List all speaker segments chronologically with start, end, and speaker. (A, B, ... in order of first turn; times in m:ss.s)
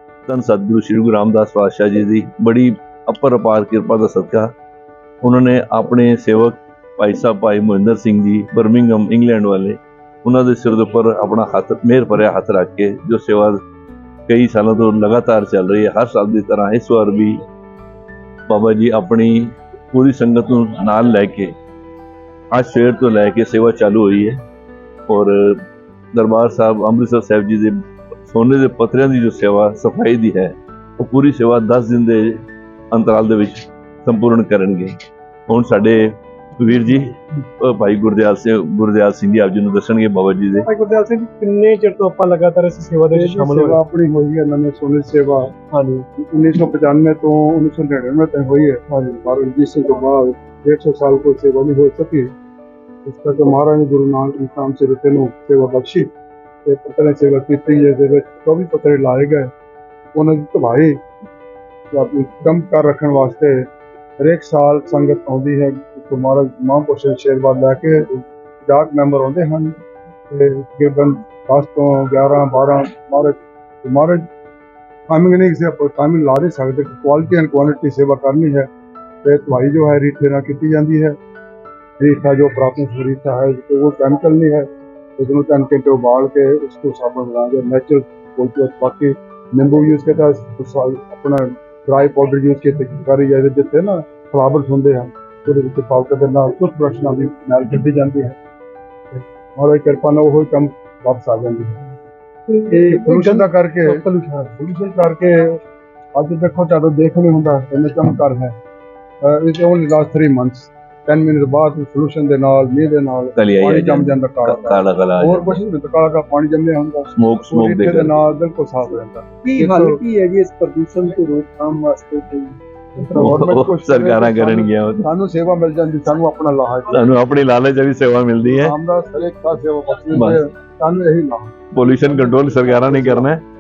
0:00.3-0:04.5 A
0:05.2-0:13.6 A
0:14.3-0:17.4 A
0:18.5-0:21.5 A
0:22.5-0:24.4 A
0:25.1-0:25.6 A
0:26.2-0:27.7 A
0:28.3-0:32.3 A
0:32.9-0:34.9 A
0:35.5-0:40.7 A
0:40.6-0:43.8 B
0:43.1-0:45.5 C
0:45.7-0:46.1 B
0:46.2-0:52.3 C
0:53.0-0:56.1 C
0:56.6-0:59.5 C
1:00.1-1:01.0 C
1:01.9-1:03.7 C
1:04.2-1:09.8 C
1:10.3-1:14.3 C
1:15.1-1:18.7 C
1:19.2-1:21.2 C
1:22.0-1:24.7 C
1:25.2-1:38.4 C
1:39.1-1:41.9 C
1:42.5-1:44.4 B
1:42.7-1:45.6 C
1:46.2-1:48.6 C
1:49.2-2:00.0 C
1:53.4-1:55.6 A
1:57.2-1:58.2 A
1:59.4-2:01.7 B
2:01.6-2:02.4 C
2:03.0-2:07.1 C
2:03.1-2:03.4 B
2:03.2-2:05.1 A
2:06.9-2:08.8 A
2:08.5-2:13.3 C
2:10.1-2:10.4 A
2:11.7-2:13.4 A